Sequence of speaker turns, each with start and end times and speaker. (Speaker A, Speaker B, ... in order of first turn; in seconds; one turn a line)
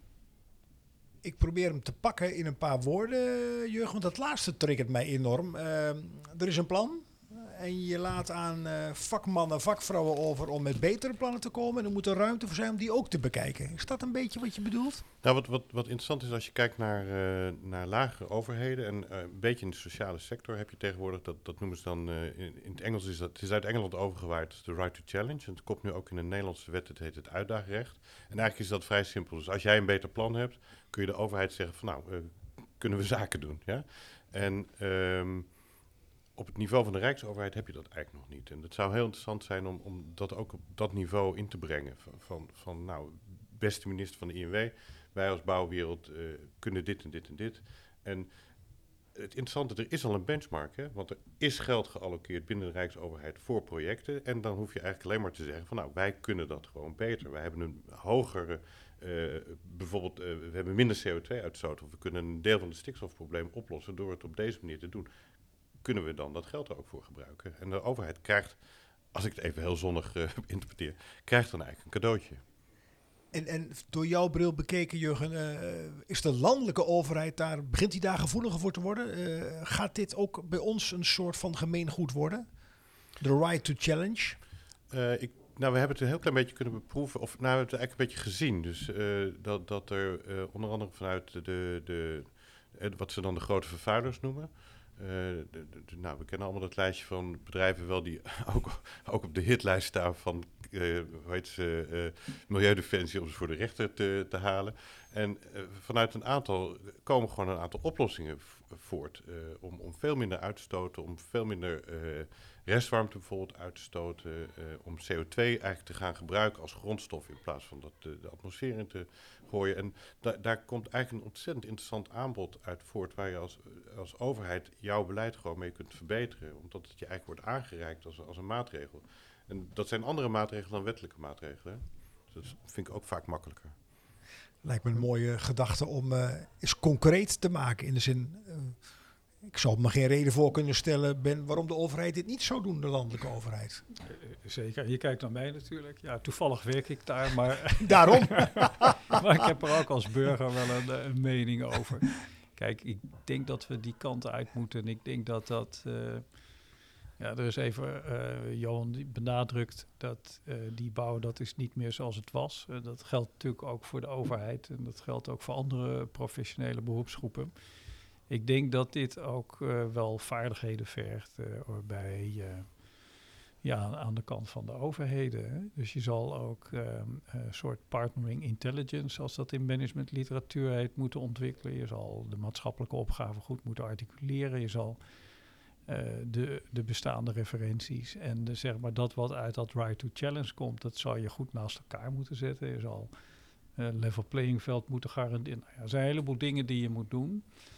Speaker A: 1.2-15.0
Speaker B: 15.2-35.5
Speaker B: 36.4-48.3
Speaker B: 49.1-65.1
Speaker B: 65.8-68.6
Speaker B: 69.1-72.4
Speaker A: 73.3-82.5
Speaker A: 83.2-84.4
Speaker B: 84.9-133.8
Speaker A: 134.6-138.8
Speaker A: 139.4-143.8
Speaker C: 144.1-156.2
Speaker A: 147.8-148.9
Speaker C: 157.2-167.5
Speaker C: 168.3-172.7
Speaker C: 173.6-185.0
Speaker C: 185.9-193.1
Speaker C: 193.8-197.4